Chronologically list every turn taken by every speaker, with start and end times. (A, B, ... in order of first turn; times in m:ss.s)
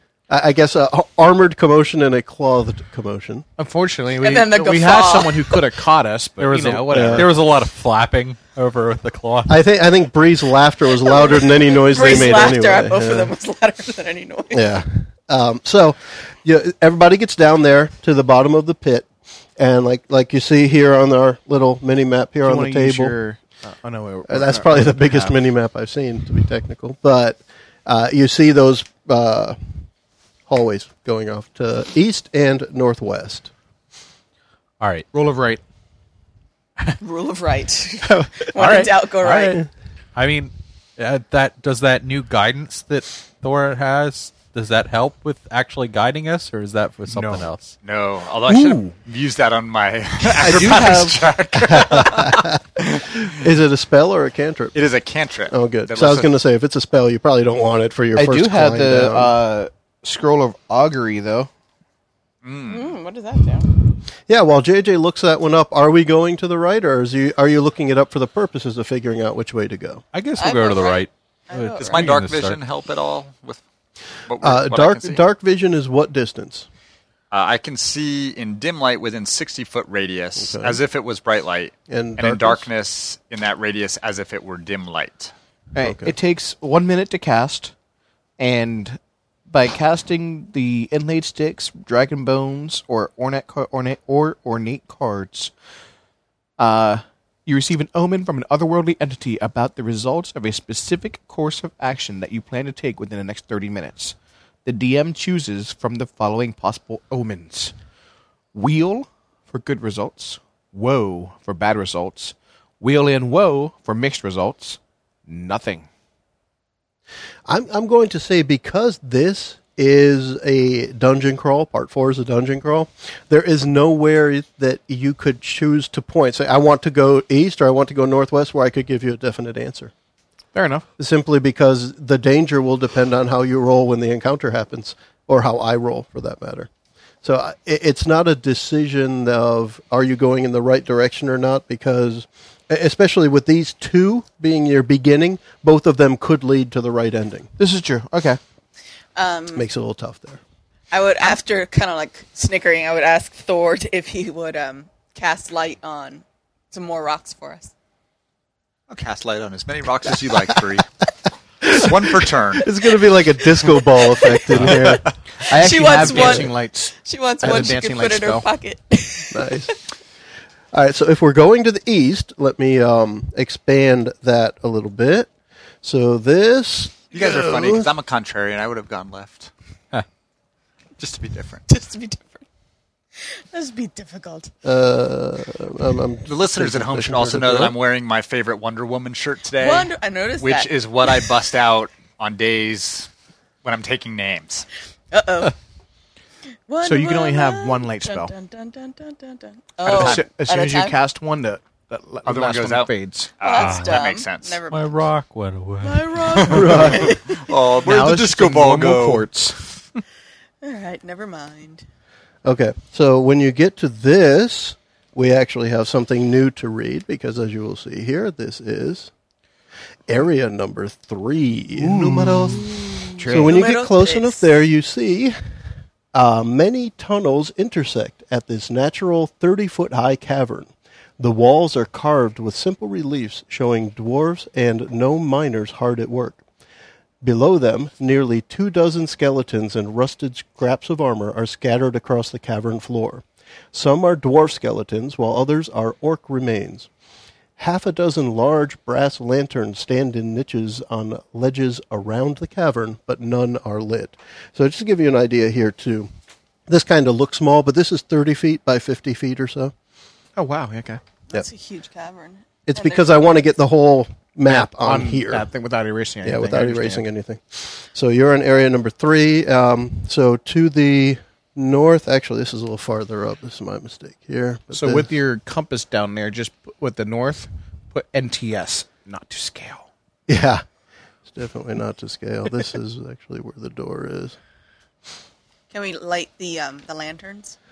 0:00.3-0:03.4 A
0:03.6-0:07.3 B
0:04.2-0:05.7 C
0:06.4-0:09.6 D
0:06.9-0:07.3 A
0:09.5-0:13.3 A
0:11.0-0:14.8 C
0:14.5-0:23.2 A
0:22.4-0:25.4 B
0:24.3-0:29.8 A
0:30.5-0:33.5 A
0:34.8-0:35.1 D
0:35.1-0:35.6 B
0:37.0-0:39.6 C
0:38.6-0:39.6 D
0:40.2-0:47.8 D
0:47.1-0:47.5 B
0:47.8-0:53.0 E
0:48.5-0:48.8 B
0:50.2-0:51.2 B
0:51.6-0:54.8 A
0:54.7-0:56.3 E
0:55.5-0:59.3 A
0:58.2-1:01.5 B
1:02.4-1:02.9 E
1:02.7-1:03.7 C
1:04.3-1:10.0 A
1:10.1-1:12.6 D
1:10.4-1:12.1 C
1:11.8-1:13.6 E
1:14.2-1:15.2 E
1:14.4-1:16.7 A
1:17.3-1:25.3 E
1:20.4-1:20.8 A
1:21.9-1:22.7 A
1:25.7-1:27.7 B
1:25.8-1:26.1 A
1:28.4-1:35.5 B
1:36.6-1:47.7 B
1:48.5-1:55.9 B
1:57.5-2:09.9 A
2:10.5-2:10.8 B
2:11.0-2:16.7 A
2:17.2-2:27.5 A
2:27.6-2:28.4 B
2:29.2-2:29.6 C
2:29.5-2:30.4 A
2:30.9-2:37.7 C
2:38.9-2:40.9 E
2:41.6-2:42.7 E
2:41.6-2:45.0 A
2:44.6-2:45.1 E
2:45.4-2:48.5 B
2:45.5-2:49.8 C
2:46.1-2:46.5 A
2:49.3-2:49.7 A
2:50.7-2:55.3 A
2:55.8-2:57.9 A
2:57.1-2:59.5 E
3:01.0-3:01.6 E
3:01.7-3:02.4 C
3:03.2-3:04.5 C
3:04.6-3:07.7 A
3:06.2-3:13.1 E
3:09.6-3:11.3 C
3:13.6-3:14.6 E
3:15.1-3:15.5 C
3:16.7-3:21.0 C
3:16.8-3:18.3 B
3:19.8-3:20.2 E
3:19.8-3:23.3 B
3:22.2-3:24.6 E
3:23.4-3:25.1 C
3:23.6-3:24.0 D
3:24.7-3:26.5 D
3:25.8-3:27.5 C
3:26.3-3:29.2 E
3:26.4-3:27.2 A
3:27.8-3:29.7 B
3:30.6-3:31.8 C
3:32.4-3:39.1 A
3:40.1-3:45.4 A
3:41.8-3:43.5 B
3:43.3-3:44.5 C
3:46.1-3:56.4 A
3:57.2-4:06.9 A
4:07.6-4:16.1 A
4:16.7-4:19.7 A
4:20.4-4:21.0 B
4:21.3-4:23.4 C
4:22.7-4:25.5 A
4:24.5-4:27.0 B
4:26.2-4:35.1 A
4:34.7-4:39.9 B
4:40.3-4:40.6 A
4:41.3-4:44.4 A
4:45.7-4:47.6 C